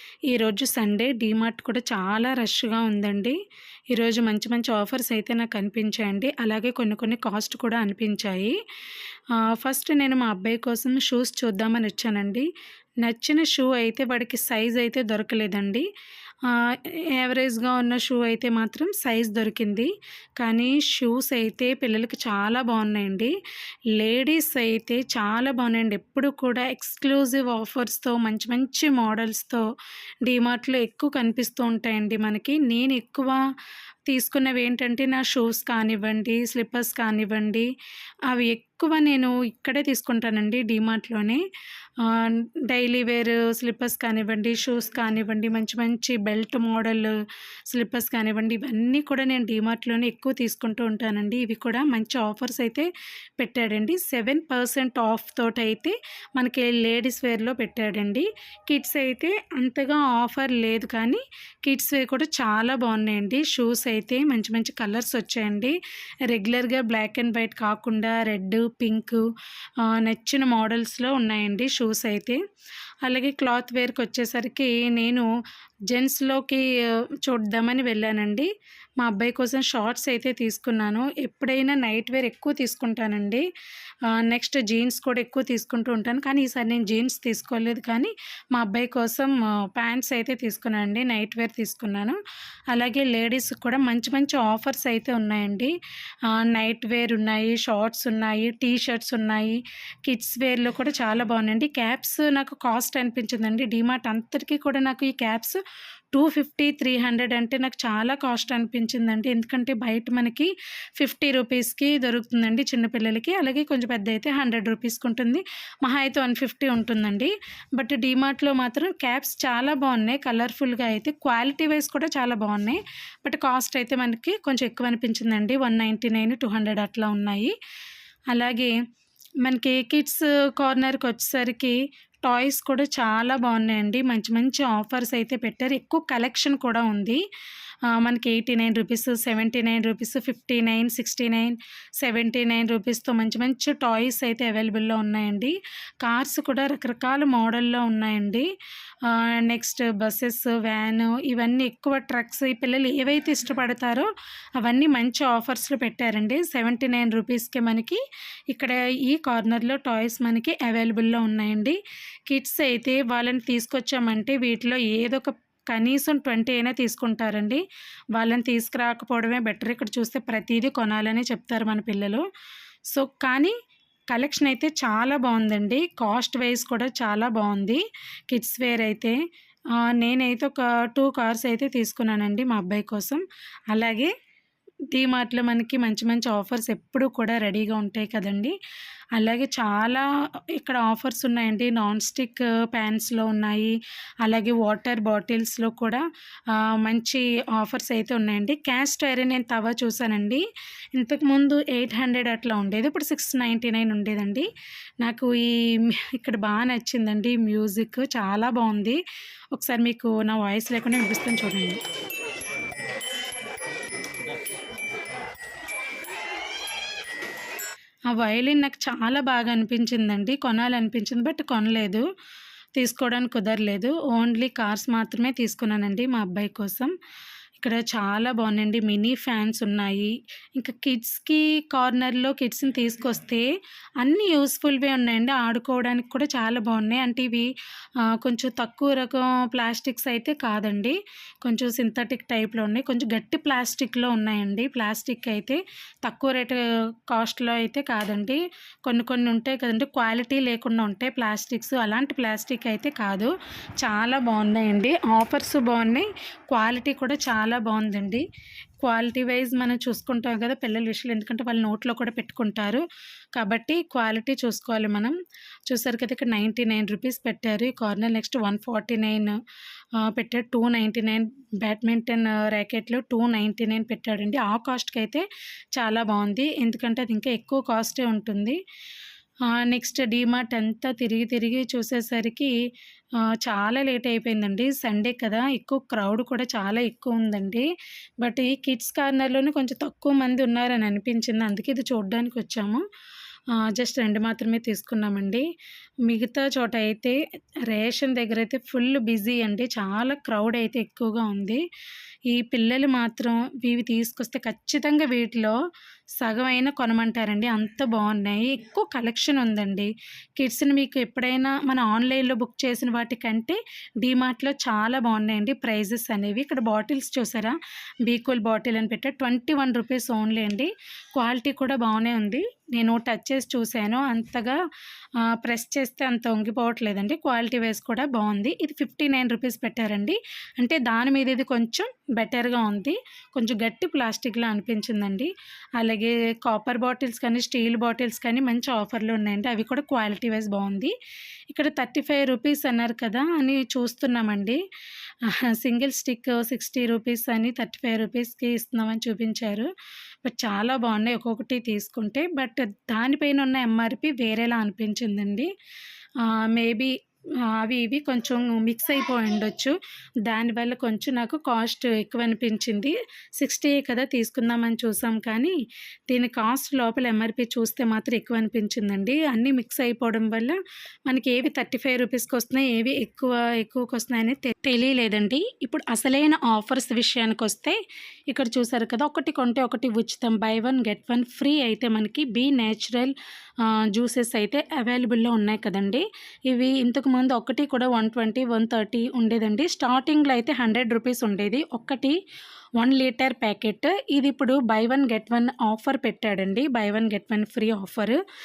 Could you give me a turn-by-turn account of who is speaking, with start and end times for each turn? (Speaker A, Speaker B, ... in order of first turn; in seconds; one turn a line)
Speaker A: 0.3-3.4
Speaker A: 3.9-8.6
Speaker A: 9.3-12.5
Speaker A: 13.0-15.8
Speaker A: 16.4-23.3
Speaker A: 23.9-29.6
Speaker A: 30.2-33.4
Speaker A: 34.1-37.7
Speaker A: 38.3-41.4
Speaker A: 42.0-47.1
Speaker A: 47.7-52.9
Speaker A: 53.4-65.7
Speaker A: 66.3-69.2
Speaker A: 69.8-72.4
Speaker A: 73.0-75.3
Speaker A: 75.9-76.6
Speaker A: 77.2-78.5
Speaker A: 79.0-83.4
Speaker A: 84.1-92.2
Speaker A: 92.7-95.7
Speaker A: 96.3-105.6
Speaker A: 106.1-127.5
Speaker A: 128.3-128.7
Speaker A: 129.4-137.2
Speaker A: 137.9-148.5
Speaker A: 149.0-154.1
Speaker A: 154.6-158.0
Speaker A: 158.5-161.8
Speaker A: 162.3-167.6
Speaker A: 168.1-172.2
Speaker A: 172.9-173.5
Speaker A: 174.1-179.2
Speaker A: 179.8-184.1
Speaker A: 184.9-188.5
Speaker A: 189.2-204.5
Speaker A: 205.0-209.0
Speaker A: 209.5-211.8
Speaker A: 218.1-222.0
Speaker A: 222.8-226.9
Speaker A: 227.6-233.4
Speaker A: 234.0-237.5
Speaker A: 238.1-258.2
Speaker A: 258.8-262.8
Speaker A: 263.3-265.1
Speaker A: 265.7-269.4
Speaker A: 270.0-278.6
Speaker A: 279.5-282.5
Speaker A: 283.2-287.6
Speaker A: 288.2-292.8
Speaker A: 293.5-295.4
Speaker A: 296.1-301.6
Speaker A: 302.3-305.6
Speaker A: 306.2-324.6
Speaker A: 325.2-340.9
Speaker A: 341.5-344.6
Speaker A: 345.2-349.7
Speaker A: 350.2-355.5
Speaker A: 356.2-356.9
Speaker A: 357.5-365.6
Speaker A: 366.1-377.8
Speaker A: 378.3-392.2
Speaker A: 392.8-398.2